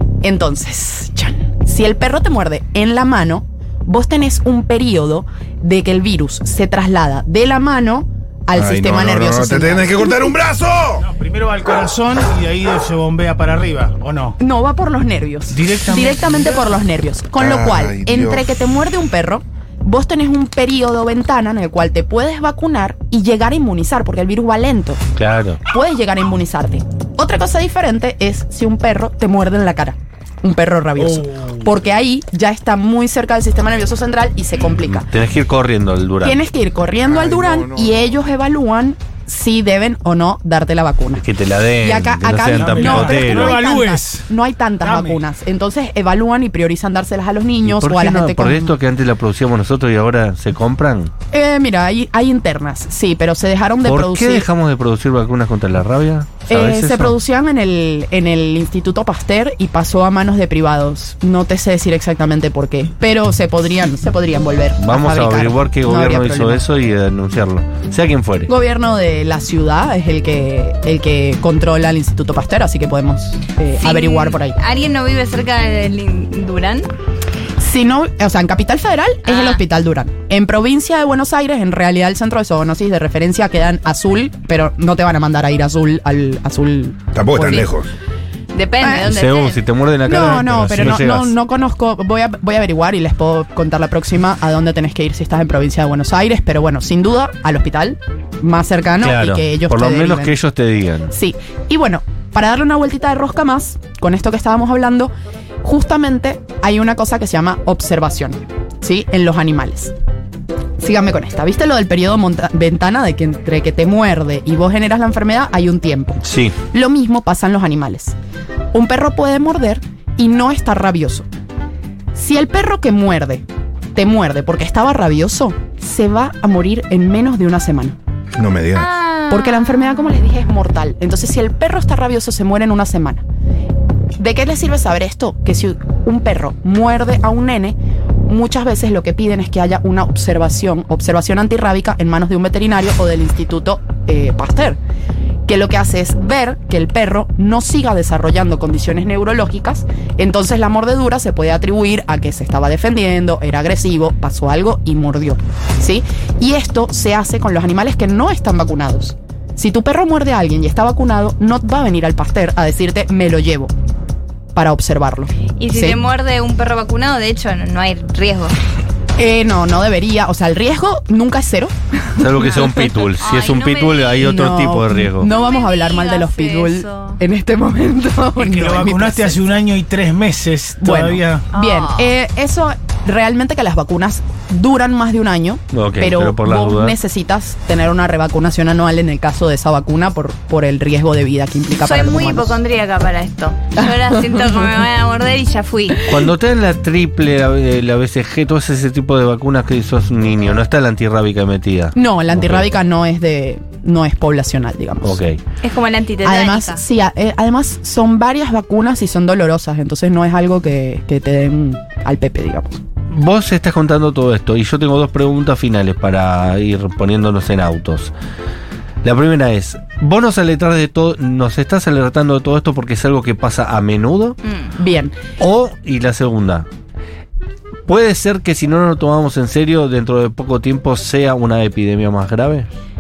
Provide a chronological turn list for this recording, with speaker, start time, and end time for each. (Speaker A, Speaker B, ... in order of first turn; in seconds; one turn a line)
Speaker A: 0.2-10.3
Speaker B: 8.5-11.1
Speaker C: 11.0-14.4
Speaker A: 14.4-25.0
Speaker C: 15.5-16.7
Speaker B: 17.4-18.5
Speaker D: 25.1-25.6
Speaker A: 25.7-35.1
Speaker C: 31.0-31.7
Speaker D: 34.8-36.4
Speaker A: 36.2-41.2
Speaker B: 37.0-38.2
Speaker D: 41.2-43.6
Speaker A: 41.8-48.7
Speaker C: 42.5-44.3
Speaker C: 44.8-45.2
Speaker D: 47.6-51.1
Speaker A: 51.3-54.5
Speaker D: 53.8-57.2
Speaker A: 56.5-66.6
Speaker D: 64.8-68.5
Speaker A: 68.5-74.6
Speaker E: 73.8-76.9
Speaker A: 77.6-87.7
Speaker E: 79.2-79.6
Speaker B: 87.1-87.9
Speaker E: 88.5-89.6
Speaker A: 88.8-89.1
Speaker D: 89.0-91.4
Speaker A: 90.1-100.3
Speaker D: 99.0-101.1
Speaker A: 101.1-105.1
Speaker A: 105.6-109.9
Speaker A: 110.8-118.2
Speaker D: 116.2-116.6
Speaker A: 118.7-121.3
Speaker A: 122.1-128.0
Speaker B: 128.3-128.9
Speaker E: 128.8-130.0
Speaker A: 129.3-133.2
Speaker A: 134.2-144.8
Speaker A: 145.5-163.7
Speaker A: 164.6-166.0
Speaker E: 165.6-168.5
Speaker A: 169.2-172.7
Speaker D: 172.2-175.3
Speaker E: 172.5-174.3
Speaker A: 174.2-179.5
Speaker E: 175.2-177.2
Speaker C: 178.4-181.5
Speaker A: 180.8-192.6
Speaker E: 181.5-182.1
Speaker D: 185.7-187.0
Speaker E: 191.8-196.1
Speaker A: 193.8-194.7
Speaker D: 196.1-202.7
Speaker A: 201.9-205.2
Speaker D: 205.0-205.4
Speaker E: 205.6-206.8
Speaker A: 206.2-212.8
Speaker D: 213.1-218.1
Speaker D: 219.0-224.4
Speaker E: 224.5-224.7
Speaker A: 224.8-225.2
Speaker D: 225.4-226.7
Speaker D: 227.9-232.7